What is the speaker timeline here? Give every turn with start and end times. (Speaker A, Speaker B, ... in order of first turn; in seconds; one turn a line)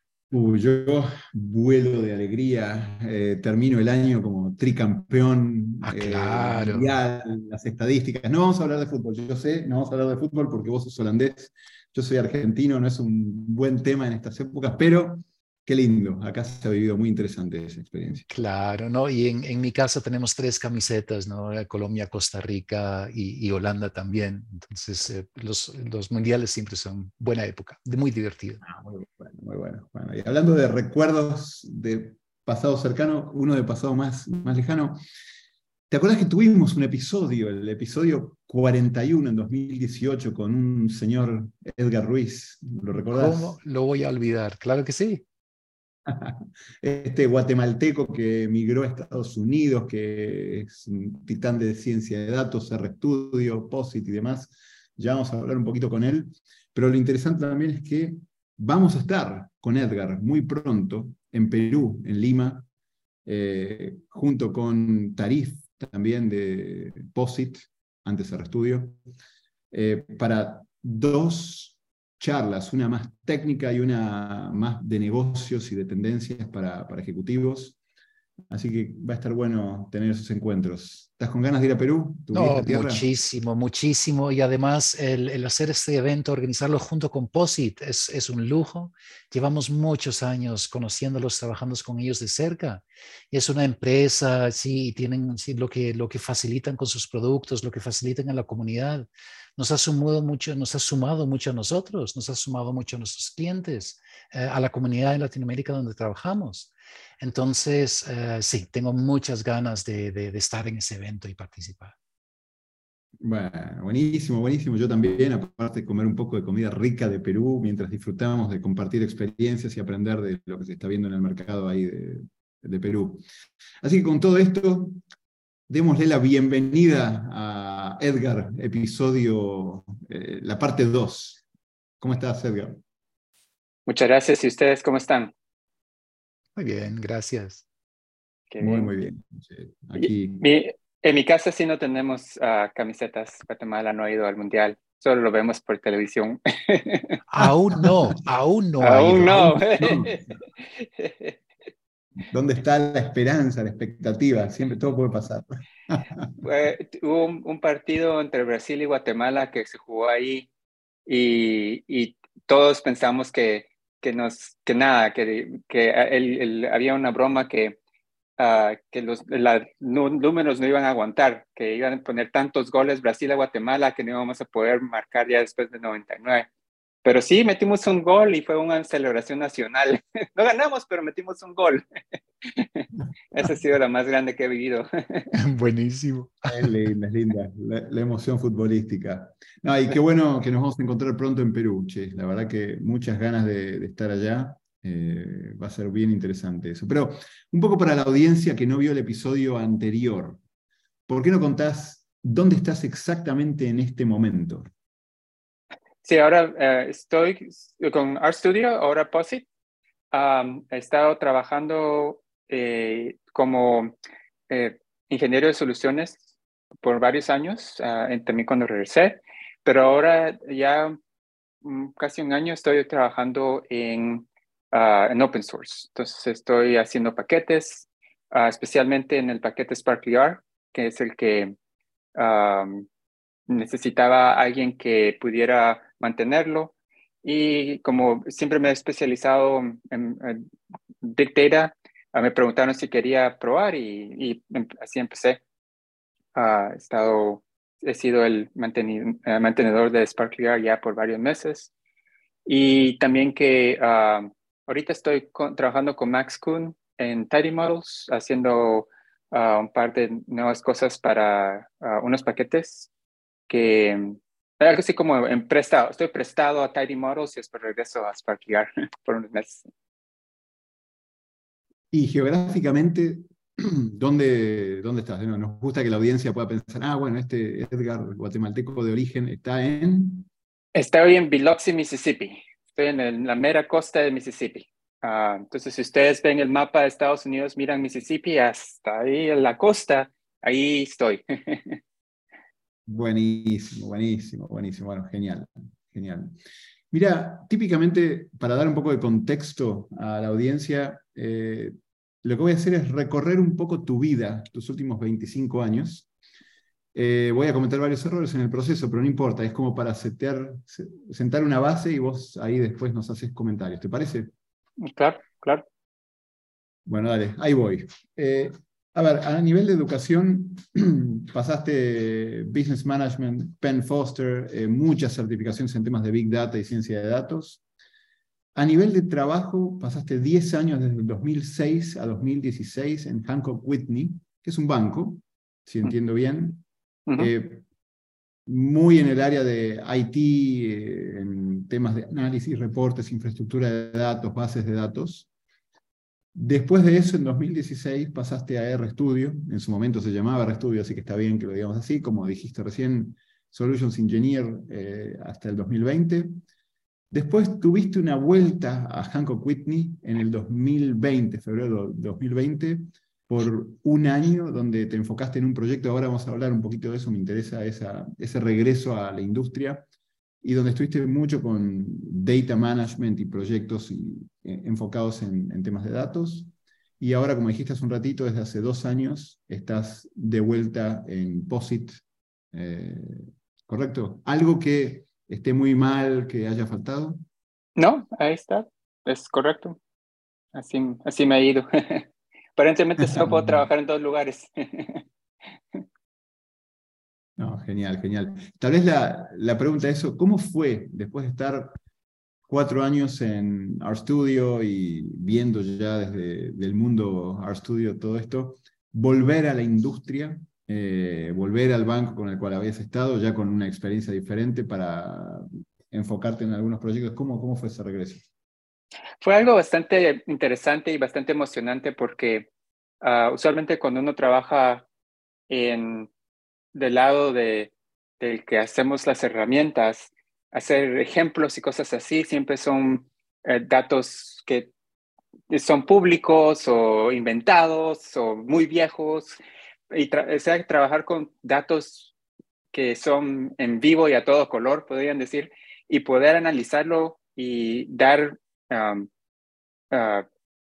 Speaker A: 0.3-18.3
Speaker B: 5.8-7.0
Speaker B: 18.3-28.6
Speaker A: 28.6-35.0
Speaker A: 35.9-43.6
Speaker B: 43.0-45.2
Speaker A: 46.1-62.6
Speaker A: 63.2-69.0
Speaker A: 69.7-77.8
Speaker A: 78.5-83.1
Speaker B: 82.3-106.7
Speaker B: 107.2-112.0
Speaker A: 113.2-123.2
Speaker A: 123.8-125.0
Speaker A: 125.7-131.4
Speaker A: 132.0-132.8
Speaker C: 133.9-135.3
Speaker B: 136.6-137.6
Speaker C: 138.5-138.9
Speaker A: 138.6-140.4
Speaker C: 140.0-147.2
Speaker B: 147.3-149.6
Speaker C: 148.8-150.2
Speaker A: 149.8-150.2
Speaker C: 150.8-151.4
Speaker A: 152.3-156.3
Speaker C: 156.4-160.5
Speaker C: 161.1-167.8
Speaker C: 168.4-176.5
Speaker C: 177.0-181.8
Speaker C: 182.4-185.3
Speaker B: 185.3-186.7
Speaker A: 186.5-200.4
Speaker A: 201.1-204.7
Speaker C: 206.0-209.5
Speaker C: 210.1-213.9
Speaker C: 214.5-216.2
Speaker C: 216.8-221.0
Speaker C: 221.6-231.5
Speaker C: 232.2-232.9
Speaker C: 233.5-236.7
Speaker C: 237.2-240.5
Speaker C: 241.0-245.4
Speaker C: 246.3-251.7
Speaker C: 252.5-262.9
Speaker C: 263.5-269.7
Speaker A: 271.9-280.3
Speaker C: 280.8-291.8
Speaker A: 292.9-296.4
Speaker A: 296.9-306.1
Speaker A: 306.9-314.3
Speaker C: 314.8-315.6
Speaker A: 316.9-327.6
Speaker A: 328.6-336.6
Speaker A: 337.2-337.6
Speaker A: 338.5-345.3
Speaker A: 346.4-356.3
Speaker A: 357.1-369.9
Speaker A: 370.4-387.2
Speaker C: 387.8-389.8
Speaker C: 390.5-395.1
Speaker A: 393.0-393.7
Speaker A: 397.4-401.7
Speaker A: 402.5-418.3
Speaker C: 419.2-422.5
Speaker C: 423.0-424.9
Speaker C: 425.5-426.1
Speaker C: 426.7-434.7
Speaker C: 435.5-439.4
Speaker C: 439.9-442.1
Speaker C: 442.7-449.1
Speaker C: 449.9-450.3